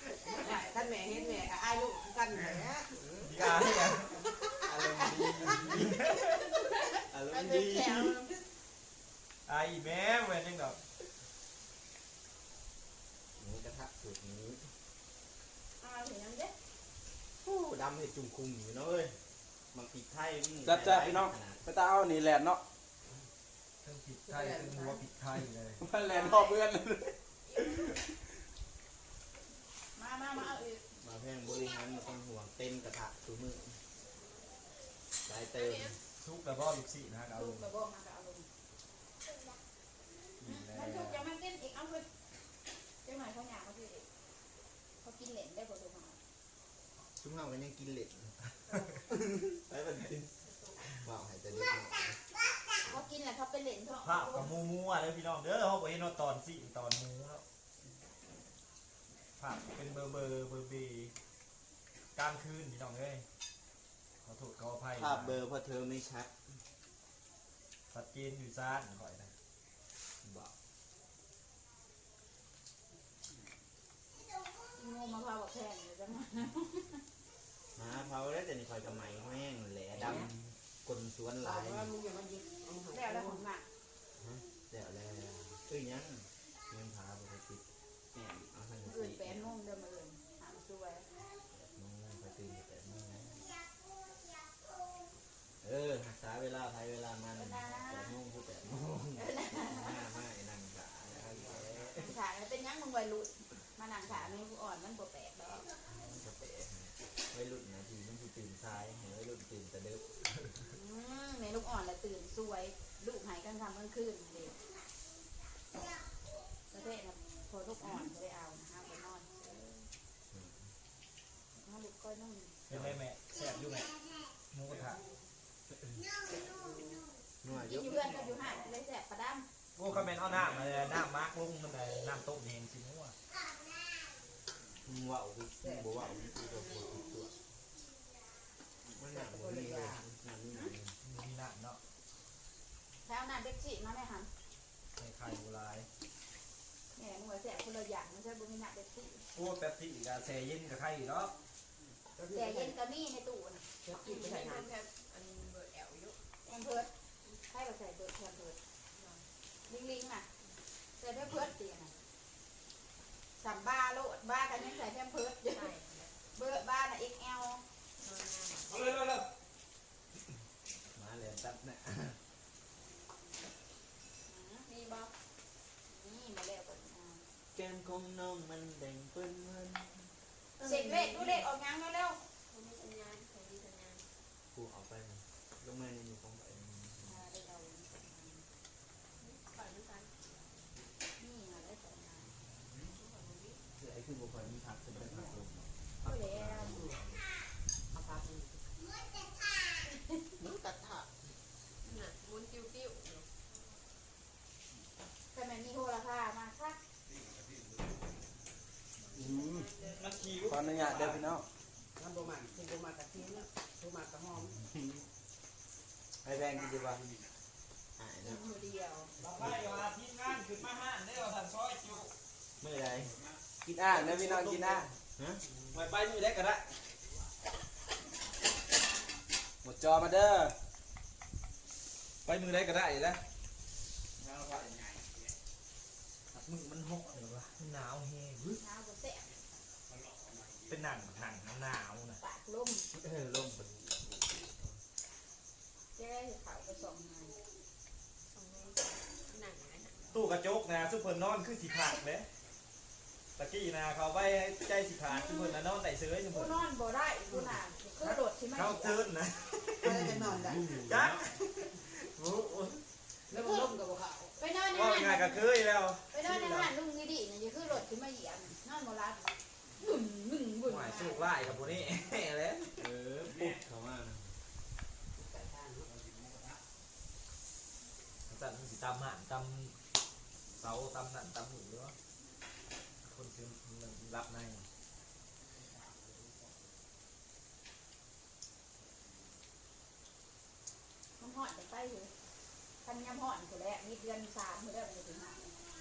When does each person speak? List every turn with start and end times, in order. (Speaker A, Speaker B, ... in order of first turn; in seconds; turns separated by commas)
Speaker A: 0.3-3.0, Speaker B: 2.8-3.4, Speaker C: 3.2-4.2, Speaker B: 4.6-6.0, Speaker D: 6.3-8.4, Speaker B: 7.1-8.2, Speaker C: 9.5-10.8, Speaker B: 13.4-14.7, Speaker D: 15.8-16.5, Speaker B: 17.4-19.1, Speaker B: 19.7-21.6, Speaker E: 20.6-22.6, Speaker C: 23.8-25.8, Speaker A: 24.2-25.0, Speaker E: 25.8-27.2, Speaker F: 26.1-26.6, Speaker F: 27.5-28.0, Speaker D: 30.0-30.8, Speaker B: 31.0-33.8, Speaker B: 35.3-36.0, Speaker F: 35.5-36.0, Speaker C: 36.2-37.7, Speaker D: 37.3-38.5, Speaker C: 40.4-41.3, Speaker D: 40.4-42.1, Speaker D: 43.0-44.1, Speaker D: 45.0-46.2, Speaker B: 47.2-48.4, Speaker B: 49.1-50.3, Speaker B: 51.0-52.2, Speaker D: 52.9-54.5, Speaker C: 54.0-57.4, Speaker C: 59.4-61.1, Speaker C: 62.2-63.2, Speaker C: 64.2-65.4, Speaker B: 65.0-66.3, Speaker C: 67.9-69.3, Speaker B: 70.2-70.5, Speaker D: 74.8-77.0, Speaker B: 77.8-81.9, Speaker A: 80.0-80.3, Speaker A: 81.4-83.4, Speaker D: 82.9-83.7, Speaker B: 84.2-89.5, Speaker D: 88.9-91.1, Speaker B: 91.5-93.6, Speaker B: 95.6-102.2, Speaker D: 97.4-98.1, Speaker D: 99.2-100.0, Speaker D: 102.0-105.7, Speaker B: 106.1-110.2, Speaker D: 110.7-114.6, Speaker D: 116.7-119.9, Speaker B: 120.3-120.7, Speaker D: 121.6-122.5, Speaker C: 122.7-123.9, Speaker B: 122.7-123.0, Speaker C: 124.5-125.0, Speaker A: 126.3-127.1, Speaker B: 127.4-128.0, Speaker D: 127.5-129.5, Speaker A: 128.0-128.7, Speaker C: 129.8-133.2, Speaker B: 129.9-130.4, Speaker B: 134.8-137.4, Speaker A: 135.6-136.0, Speaker B: 138.9-140.9, Speaker A: 139.1-140.0, Speaker C: 141.0-141.8, Speaker D: 143.1-144.3, Speaker C: 145.0-145.9, Speaker D: 146.9-149.2, Speaker C: 149.3-151.3, Speaker A: 152.2-152.8, Speaker D: 152.3-153.6, Speaker A: 153.8-154.7, Speaker F: 153.9-156.2, Speaker D: 156.4-156.9, Speaker D: 157.5-158.6, Speaker F: 158.9-159.3, Speaker D: 159.7-160.3, Speaker D: 161.0-161.9, Speaker D: 163.4-165.7, Speaker F: 165.5-166.2, Speaker D: 166.3-167.6, Speaker F: 168.0-168.8, Speaker C: 168.7-169.2, Speaker B: 170.9-172.2, Speaker D: 174.3-174.7, Speaker F: 174.7-175.1, Speaker D: 175.9-177.2, Speaker B: 177.6-181.4, Speaker D: 180.6-182.2, Speaker F: 182.5-184.1, Speaker B: 184.5-187.2, Speaker D: 187.0-188.5, Speaker F: 189.2-190.5, Speaker D: 191.2-192.3, Speaker F: 192.9-193.6, Speaker B: 193.8-197.2, Speaker D: 196.0-196.9, Speaker A: 197.9-198.7, Speaker D: 199.9-200.3, Speaker B: 200.4-201.1, Speaker F: 201.8-203.3, Speaker D: 205.3-206.8, Speaker F: 209.0-210.5, Speaker E: 209.2-209.7, Speaker C: 209.8-211.3, Speaker E: 210.4-211.4, Speaker A: 212.0-214.6, Speaker B: 216.2-217.0, Speaker B: 218.0-218.4, Speaker D: 218.2-219.1, Speaker C: 219.2-222.1, Speaker B: 222.6-223.2, Speaker E: 223.6-224.9, Speaker C: 223.8-224.9, Speaker B: 225.2-225.4, Speaker C: 225.7-226.6, Speaker E: 229.6-230.6, Speaker C: 232.3-233.2, Speaker C: 236.3-238.6, Speaker D: 238.6-239.3, Speaker C: 240.7-242.2, Speaker D: 242.2-242.9, Speaker B: 242.9-244.8, Speaker D: 245.9-247.4, Speaker F: 248.3-250.0, Speaker C: 250.1-252.3, Speaker C: 253.4-256.6, Speaker D: 255.1-255.6, Speaker D: 256.3-259.1, Speaker C: 258.0-259.9, Speaker A: 259.8-260.8, Speaker B: 259.9-261.1, Speaker C: 260.7-262.8, Speaker A: 263.3-264.4, Speaker D: 263.4-263.7, Speaker D: 264.4-265.5, Speaker C: 264.7-266.7, Speaker D: 266.1-271.3, Speaker C: 270.6-272.8, Speaker B: 272.8-274.3, Speaker A: 275.2-275.9, Speaker C: 278.3-279.8, Speaker C: 280.6-281.9, Speaker C: 283.0-284.6, Speaker D: 291.2-292.1, Speaker D: 292.8-295.6